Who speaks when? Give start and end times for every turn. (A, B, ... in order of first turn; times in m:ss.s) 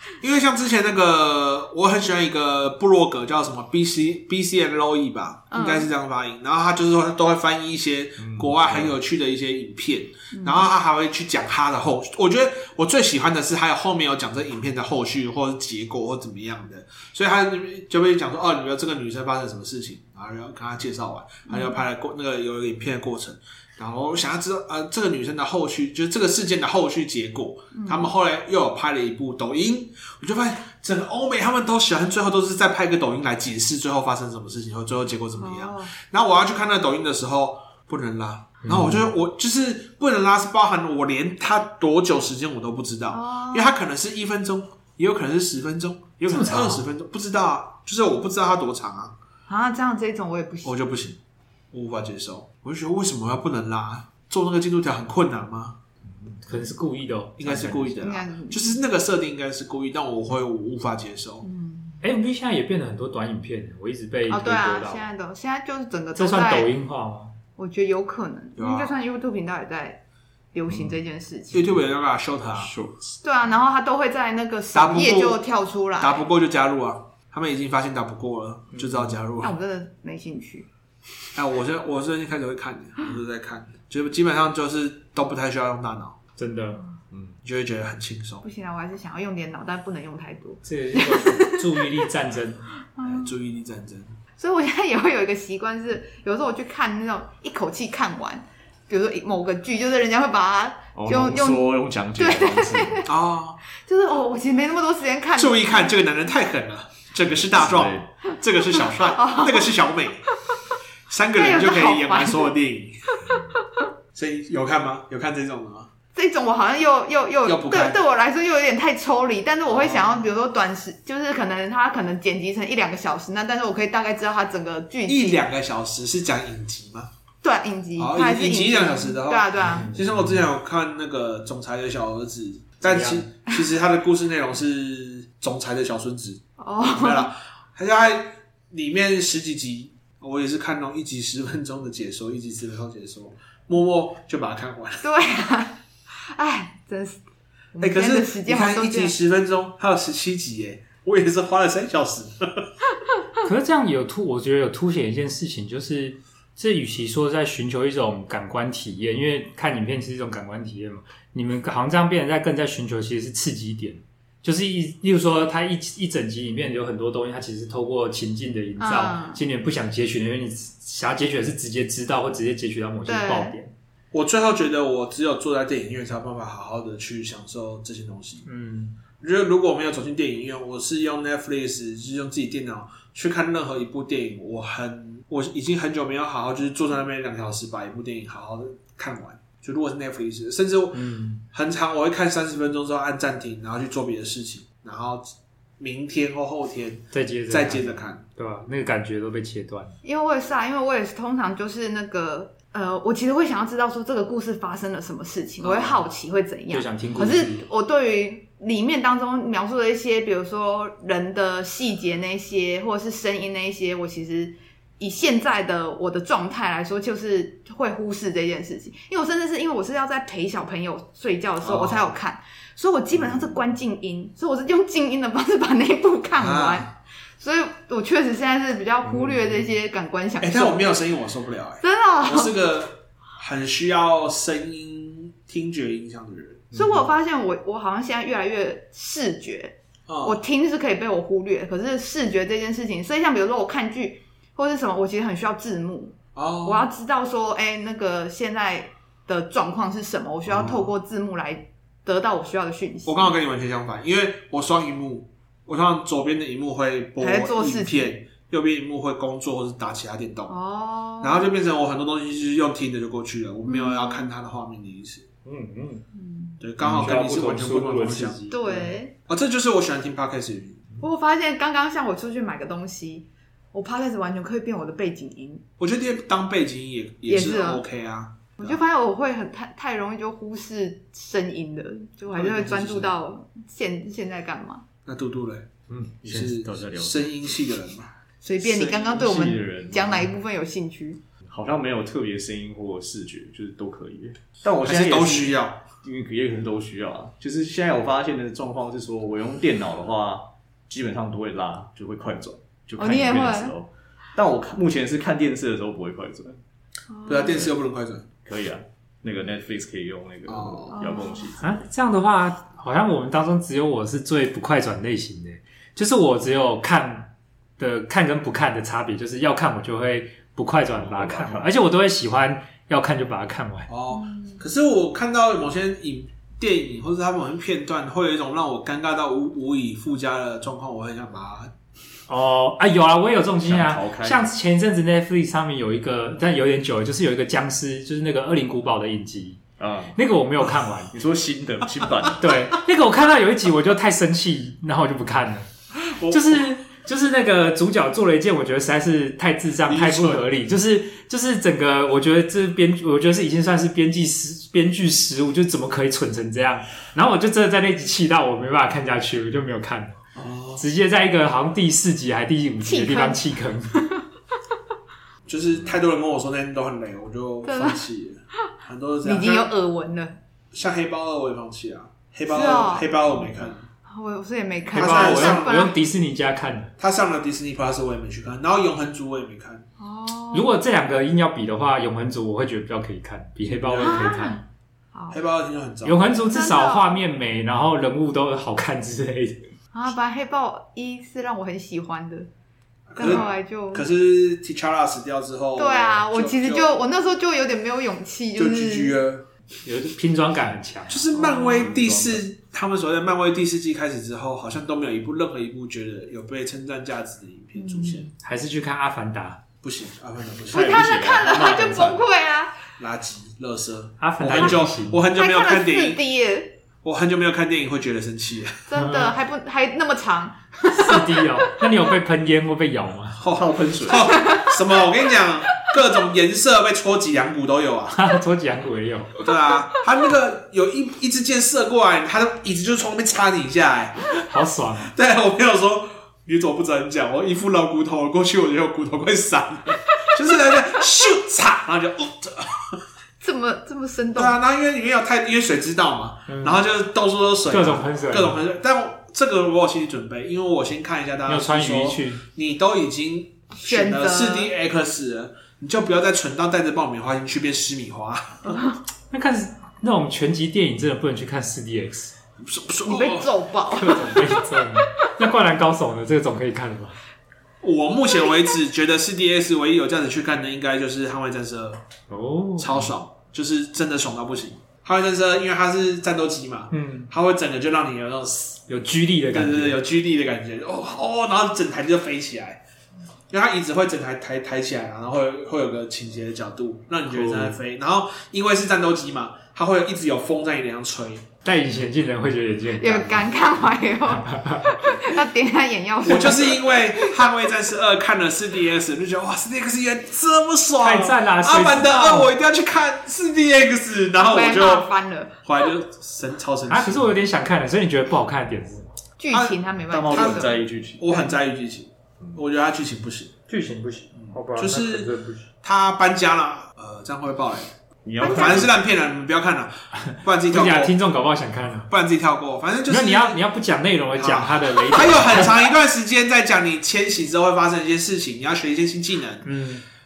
0:00.2-0:49.2 A
0:05.5-0:05.9 B
0:08.2-0:08.9 C
0:10.3-0:10.7 B
0:21.5-0:21.8 B
0:27.7-0:28.1 B
0:35.4-0:35.9 B
0:38.6-0:39.1 D
0:43.1-0:43.7 B
0:46.3-0:46.8 D
0:49.5-0:50.7 B
0:50.6-0:51.2 A
0:51.7-0:55.8 A
0:56.3-0:58.0 D
0:57.4-1:01.5 A
0:58.0-0:58.8 B
1:01.4-1:02.0 B
1:02.0-1:05.0 D
1:04.3-1:06.7 B
1:06.2-1:07.3 D
1:07.6-1:10.0 B
1:08.6-1:08.9 A
1:10.5-1:11.7 B
1:11.5-1:12.7 A
1:12.6-1:13.1 C
1:13.2-1:16.2 B
1:14.7-1:15.4 A
1:16.0-1:19.6 A
1:18.8-1:19.1 D
1:19.4-1:20.7 B
1:21.4-1:26.2 A
1:26.4-1:26.8 D
1:27.4-1:28.4 A
1:28.4-1:31.9 B
1:30.6-1:32.7 D
1:33.0-1:33.4 B
1:33.0-1:34.1 A
1:34.4-1:43.1 B
1:41.0-1:43.1 C
1:43.1-1:43.6 A
1:43.8-1:46.0 B
1:45.4-1:50.3 A
1:47.4-1:48.1 C
1:48.7-1:49.8 B
1:51.1-1:53.2 A
1:51.4-1:52.5 B
1:54.2-1:55.9 A
1:56.1-2:05.4 B
1:57.4-1:58.0 A
1:59.7-2:00.3 A
2:05.1-2:07.1 A
2:07.4-2:09.9 B
2:08.0-2:25.1 A
2:09.6-2:10.4 D
2:12.8-2:13.2 D
2:16.6-2:17.3 B
2:25.0-2:27.2 B
2:27.7-2:29.1 B
2:27.8-2:32.7 A
2:33.4-2:53.7 D
2:48.8-2:49.4 B
2:53.1-2:53.6 B
2:54.1-2:58.4 A
2:58.4-2:59.0 D
2:59.2-3:18.2 A
3:10.9-3:11.4 D
3:17.1-3:19.9 D
3:20.0-3:50.9 B
3:25.6-3:26.0 A
3:26.7-3:27.6 D
3:41.6-3:42.1 A
3:46.4-3:46.8 A
3:49.1-3:49.3 D
3:50.4-3:56.7 A
3:51.8-3:52.6 B
3:56.7-4:13.4 B
4:00.1-4:00.4 A
4:06.4-4:06.9 A
4:10.5-4:10.9 A
4:13.0-4:20.6 A
4:17.2-4:18.1 B
4:20.5-4:21.5 B
4:21.2-4:25.3 A
4:23.7-4:24.3 B
4:25.4-4:26.0 D
4:26.1-4:26.6 B
4:26.6-4:30.8 A
4:26.8-4:28.9 D
4:28.5-4:29.2 B
4:31.0-4:35.6 B
4:35.8-4:38.8 A
4:37.3-4:37.8 B
4:38.6-4:44.8 B
4:42.3-4:43.2 A
4:45.1-4:45.7 A
4:45.9-4:47.3 C
4:46.3-4:49.1 A
4:48.4-4:51.2 B
4:48.8-4:50.4 C
4:51.5-5:06.6 C
4:54.8-4:55.8 A
5:03.0-5:03.7 B
5:07.1-5:07.7 B
5:07.3-5:08.3 A
5:08.4-5:11.8 C
5:10.5-5:11.2 A
5:10.9-5:11.5 B
5:11.6-5:23.9 D
5:21.0-5:21.7 C
5:23.9-5:31.7 A
5:24.1-5:24.6 B
5:32.3-5:39.6 D
5:33.6-5:34.5 C
5:39.8-5:40.2 C
5:40.2-5:41.2 D
5:41.1-5:42.5 C
5:42.4-5:45.7 D
5:45.9-5:46.7 A
5:46.3-6:00.2 D
5:49.9-5:50.4 A
6:00.4-6:00.9 A
6:00.8-6:04.0 D
6:02.8-6:04.2 B
6:05.5-6:09.7 A
6:07.6-6:08.0 B
6:09.2-6:10.4 B
6:10.7-6:13.8 A
6:12.5-6:13.1 B
6:14.1-6:16.0 B
6:14.9-6:15.9 A
6:14.9-6:16.9 D
6:17.0-6:19.8 A
6:20.0-6:20.7 B
6:20.5-6:24.6 D
6:23.6-6:24.4 A
6:24.0-6:24.6 B
6:25.3-6:26.2 A
6:26.0-6:29.6 D
6:26.5-6:27.2 B
6:29.9-6:32.5 B
6:33.1-6:37.0 A
6:33.2-6:34.1 B
6:35.8-6:39.2 B
6:38.6-6:39.5 A
6:39.8-6:42.4 D
6:41.1-6:48.3 A
6:41.3-6:42.0 B
6:47.8-6:48.2 B
6:48.4-6:49.6 D
6:49.8-6:51.2 A
6:50.7-6:52.2 C
6:50.7-6:52.8 B
6:53.0-6:56.2 A
6:54.2-6:55.2 D
6:55.4-6:56.7 B
6:57.0-6:58.9 A
6:58.9-7:01.5 B
6:59.0-6:59.3 D
7:00.9-7:03.4 D
7:03.4-7:08.2 A
7:03.5-7:04.3 C
7:04.2-7:04.8 B
7:08.1-7:09.4 D
7:09.4-7:14.2 A
7:14.5-7:15.1 D
7:15.1-7:23.0 A
7:23.4-7:24.5 B
7:24.4-7:38.8 A
7:26.5-7:26.8 D
7:27.7-7:28.6 D
7:31.5-7:32.4 D
7:33.8-7:34.7 B
7:39.3-7:42.3 D
7:42.6-7:43.5 A
7:43.1-7:45.0 B
7:43.9-7:47.2 D
7:47.8-7:52.0 A
7:52.3-7:53.1 D
7:52.8-7:58.8 A
7:56.9-7:57.3 D
7:58.9-8:00.0 D
7:59.5-8:02.8 A
8:03.5-8:11.5 A
8:07.4-8:07.8 C
8:11.6-8:13.6 D
8:13.0-8:17.6 B
8:14.3-8:15.1 D
8:16.2-8:25.1 A
8:21.0-8:22.5 D
8:24.4-8:25.6 B
8:25.6-8:27.3 A
8:26.9-8:29.1 D
8:29.4-8:31.6 B
8:29.5-8:33.5 A
8:30.1-8:31.2 C
8:33.7-8:35.6 D
8:34.8-8:41.2 A
8:38.2-8:38.9 C
8:38.4-8:38.9 B
8:40.3-8:42.1 D
8:42.1-8:43.6 A
8:43.1-8:45.8 D
8:44.4-8:49.7 A
8:49.6-8:50.0 D